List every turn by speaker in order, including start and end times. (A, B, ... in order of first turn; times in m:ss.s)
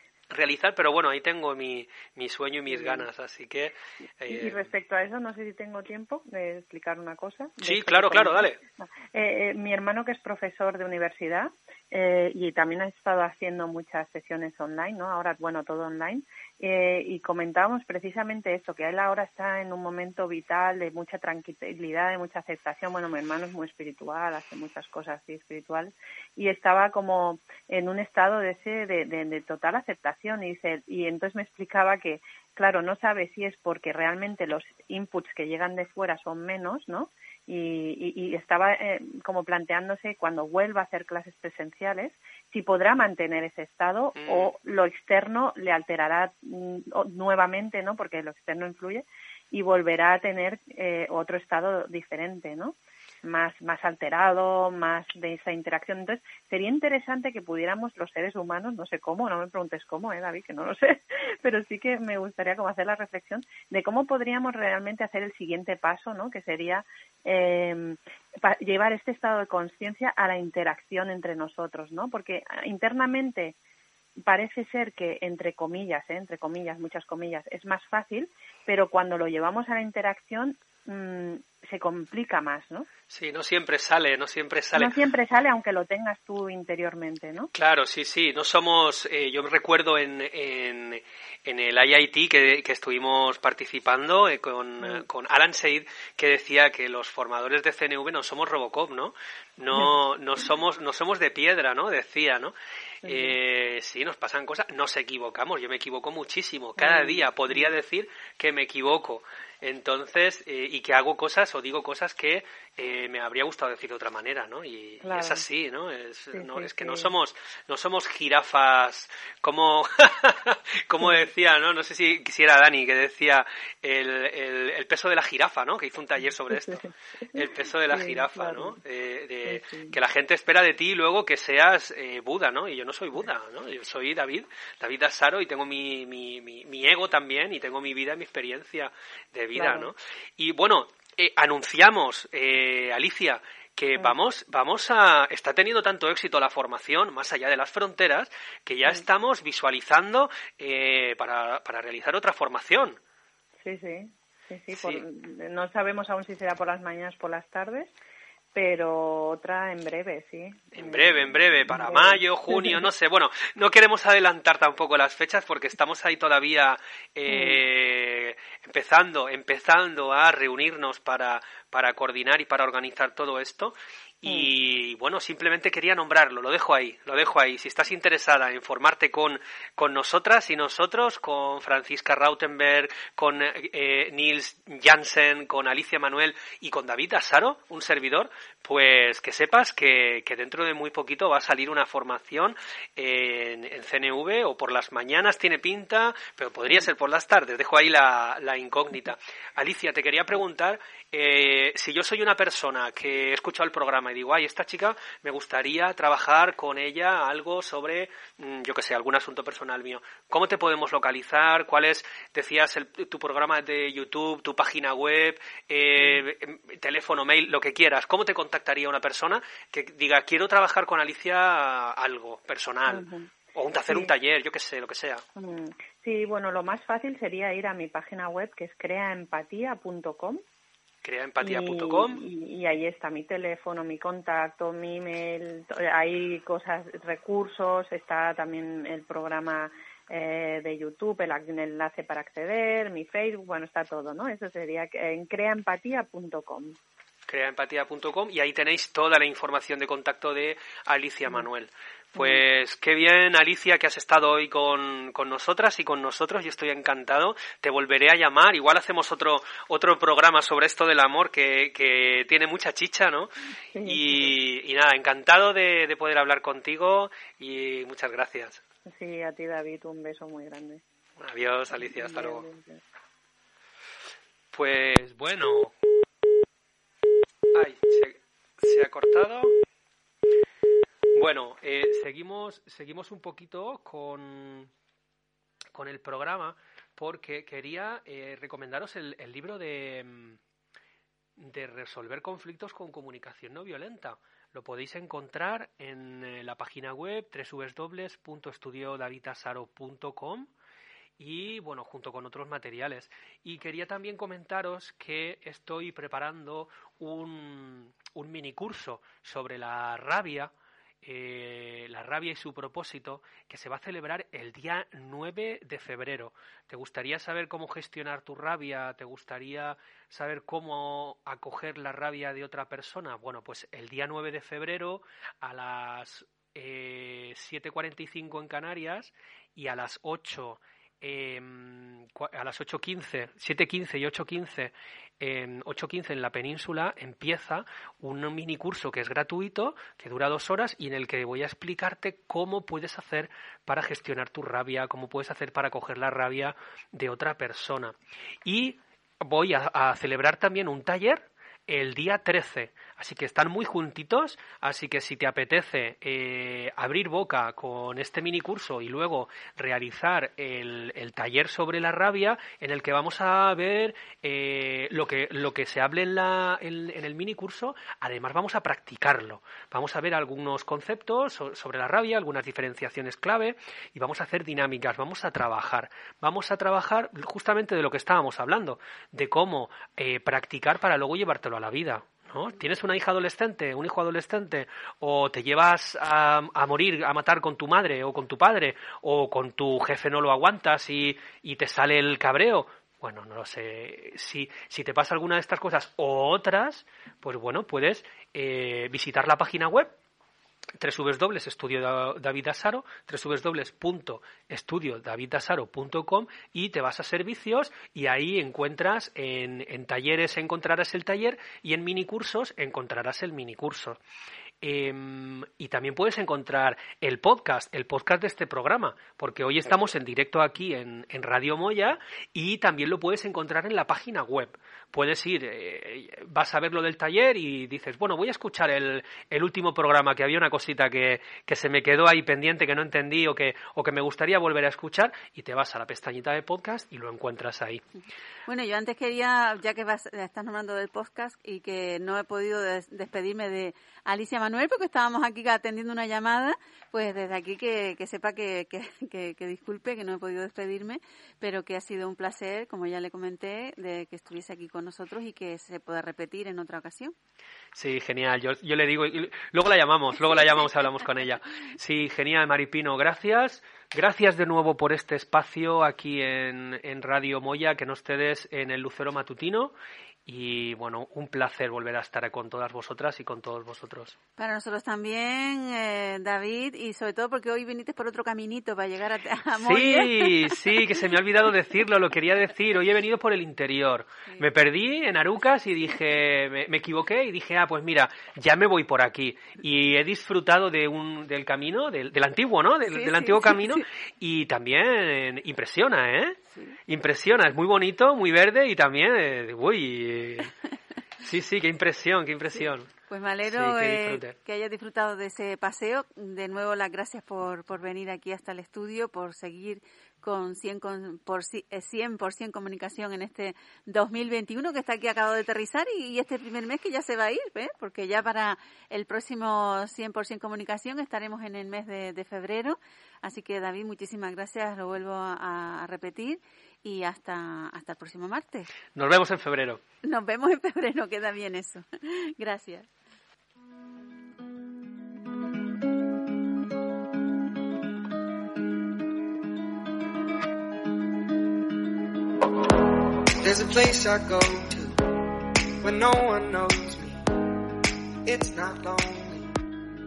0:00.3-0:04.7 A
0:02.7-0:03.0 B
0:04.3-1:13.5 B
0:07.6-0:08.6 A
0:44.2-0:44.5 A
1:14.2-1:22.9 B
1:23.1-1:25.0 A
1:24.8-1:27.5 B
1:27.5-1:42.5 A
1:43.0-1:43.4 B
1:43.0-2:33.0 A
1:46.8-1:47.7 B
1:55.0-1:55.4 B
1:56.3-1:57.1 B
2:06.5-2:07.3 B
2:07.9-2:08.8 B
2:09.5-2:10.0 B
2:19.5-2:19.9 B
2:33.6-2:37.9 B
2:34.7-2:35.0 A
2:38.5-2:42.8 B
2:40.7-3:45.2 A
2:47.3-2:47.6 B
3:36.0-3:36.2 B
3:42.9-3:43.3 B
3:45.4-3:50.4 B
3:51.0-3:52.2 A
3:51.4-4:06.8 B
4:07.3-4:23.3 A
4:12.2-4:12.4 B
4:23.7-4:24.3 B
4:23.8-4:28.6 A
4:28.9-4:30.8 B
4:31.2-4:32.4 A
4:31.8-4:32.8 B
4:34.5-4:35.7 A
4:37.5-4:39.6 A
4:41.1-4:44.7 A
4:45.7-4:50.4 A
4:51.4-5:00.5 A
5:01.2-6:39.9 A
6:40.8-6:54.0 A
6:54.6-7:17.8 A
7:18.5-7:37.1 C
7:37.7-7:49.7 A
7:50.2-7:54.2 A
7:54.4-8:00.6 C
7:59.6-8:20.5 A
8:12.9-8:13.8 C
8:21.2-8:22.9 A
8:23.1-8:48.7 C
8:23.4-8:24.3 A
8:48.9-8:49.8 A
8:50.0-8:52.9 C
9:03.4-9:07.7 D
9:08.2-9:09.6 D